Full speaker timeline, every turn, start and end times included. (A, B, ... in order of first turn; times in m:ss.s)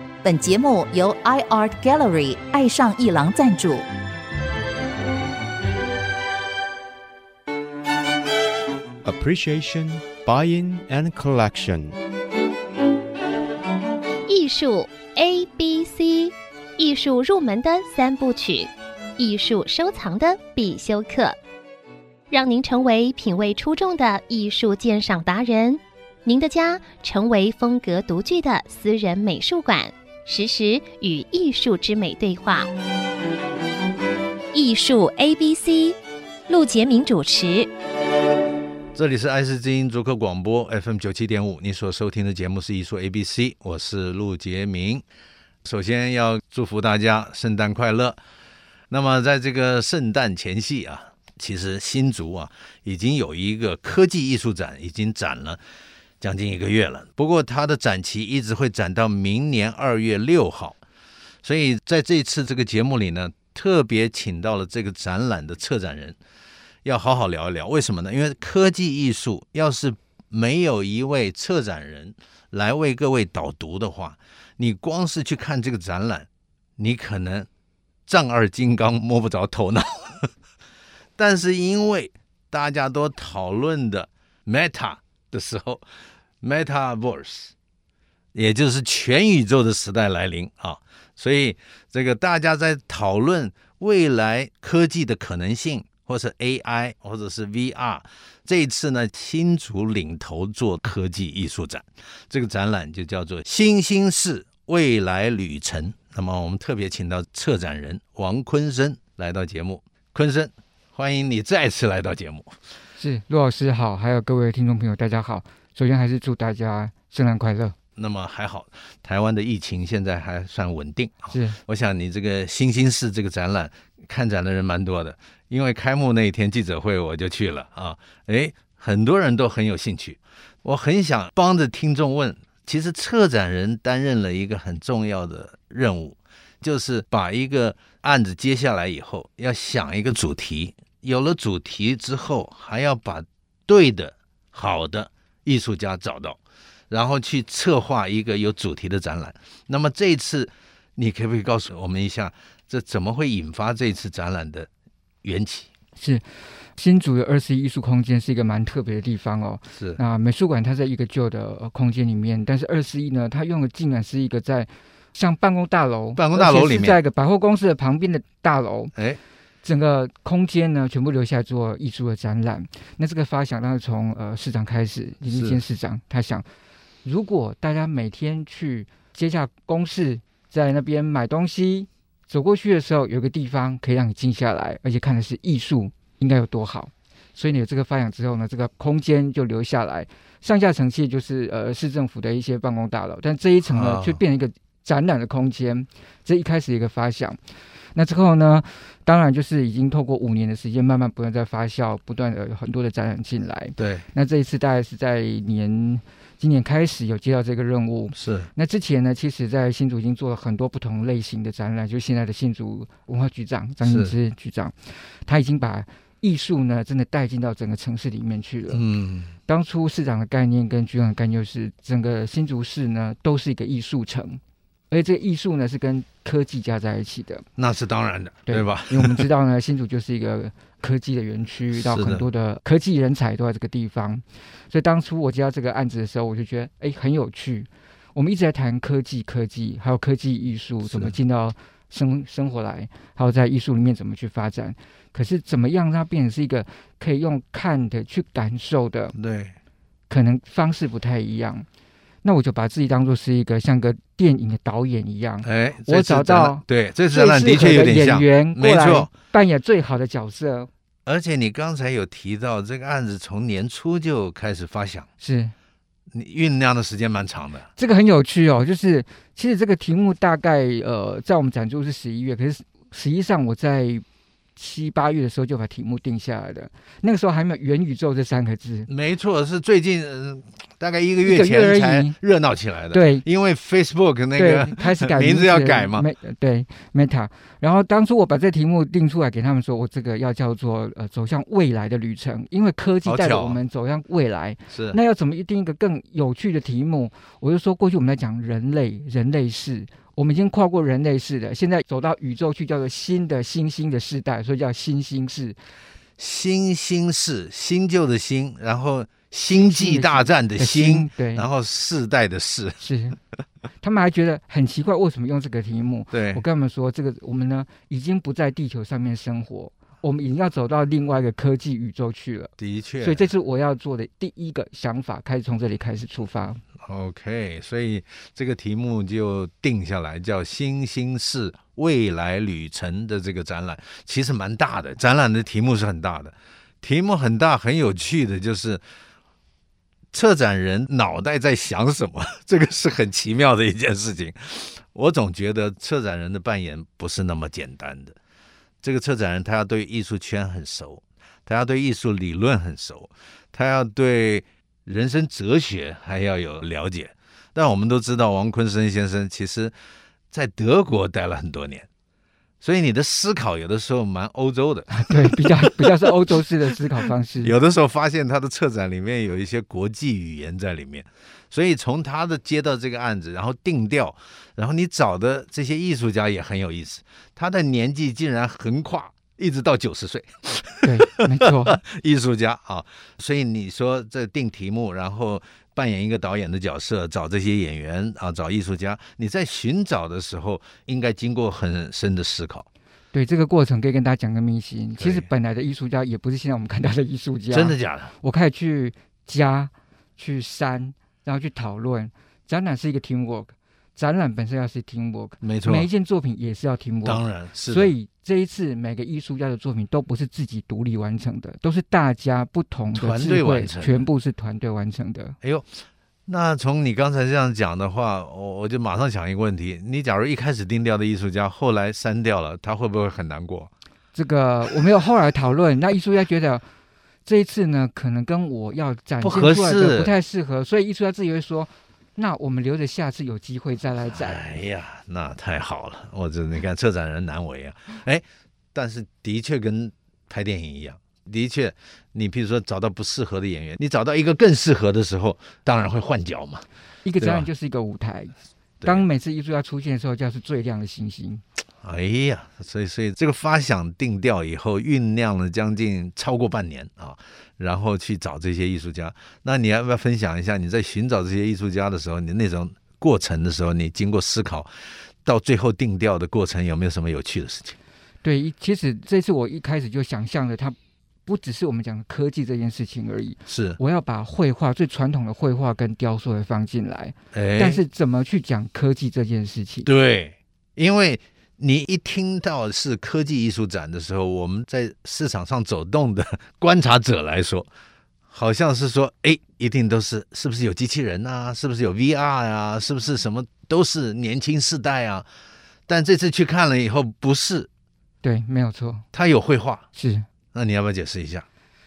0:00.2-0:03.8 A
0:09.0-0:12.0 B
0:14.3-0:21.4 C
0:22.3-0:32.7 C
0:34.5-0:36.0 C
0:36.5-0:37.7 C
0:38.9-0:45.0 D
0:45.6-0:48.2 D
0:48.9-0:55.6 D
0:56.2-1:00.8 D
1:01.4-1:06.2 D
1:06.8-1:17.5 D
1:18.1-1:20.3 D
1:21.2-1:25.8 D
1:26.4-1:27.5 D
1:28.3-1:52.6 D
1:53.0-1:57.7 E
1:58.0-2:26.4 D
2:01.3-2:01.6 E
2:26.9-2:34.7 D
2:35.2-2:35.7 D
2:36.0-2:36.2 E
2:36.8-2:48.9 E
2:39.7-2:40.0 D
2:46.2-2:47.0 D
2:49.6-2:56.4 E
2:55.2-2:55.6 D
2:57.0-3:17.4 E
3:13.6-3:14.2 D
3:17.9-3:38.8 E
3:23.8-3:24.0 D
3:28.1-3:28.5 D
3:33.8-3:34.1 D
3:38.7-3:39.3 D
3:39.5-3:44.4 E
3:44.9-3:47.4 E
3:47.6-3:49.2 D
3:48.5-4:09.2 E
3:51.7-3:52.3 D
4:00.8-4:01.2 D
4:09.1-4:09.5 D
4:10.1-4:11.6 E
4:12.2-4:20.7 E
4:15.4-4:19.1 D
4:21.0-4:25.1 D
4:25.2-4:25.5 E
4:26.1-4:27.7 D
4:27.8-4:34.0 E
4:34.6-4:38.9 E
4:38.9-4:46.0 D
4:41.2-4:42.2 E
4:42.9-4:43.2 E
4:44.4-5:05.6 E
4:53.0-4:53.6 D
4:54.7-4:55.0 D
5:06.2-5:12.8 D
5:09.5-5:11.4 E
5:12.8-5:13.2 E
5:13.8-5:26.6 E
5:16.1-5:16.4 D
5:22.6-5:23.3 D
5:26.8-5:38.8 D
5:40.1-5:48.2 D
5:48.8-5:59.7 D
6:00.3-6:01.9 D
6:02.6-6:06.8 D
6:04.9-6:07.5 E
6:07.4-6:32.6 D
6:20.8-6:21.8 E
6:33.1-6:55.4 E
6:35.0-6:35.3 D
6:37.5-6:38.1 D
6:45.4-6:45.9 D
6:47.0-6:47.9 D
6:52.9-6:54.1 D
6:55.4-7:03.7 D
7:04.1-7:06.6 E
7:07.2-7:14.4 E
7:09.2-7:10.1 D
7:14.1-7:26.6 D
7:27.0-7:28.3 E
7:27.2-7:27.5 D
7:28.8-7:31.4 E
7:31.8-7:44.7 D
7:45.2-7:47.8 D
7:48.2-7:59.9 E
7:53.5-7:53.8 D
7:57.3-7:57.8 D
7:59.8-8:07.7 D
8:08.3-8:15.2 D
8:15.9-8:17.7 D
8:18.2-8:19.0 E
8:19.1-8:19.8 D
8:19.9-8:20.3 E
8:20.5-8:21.4 D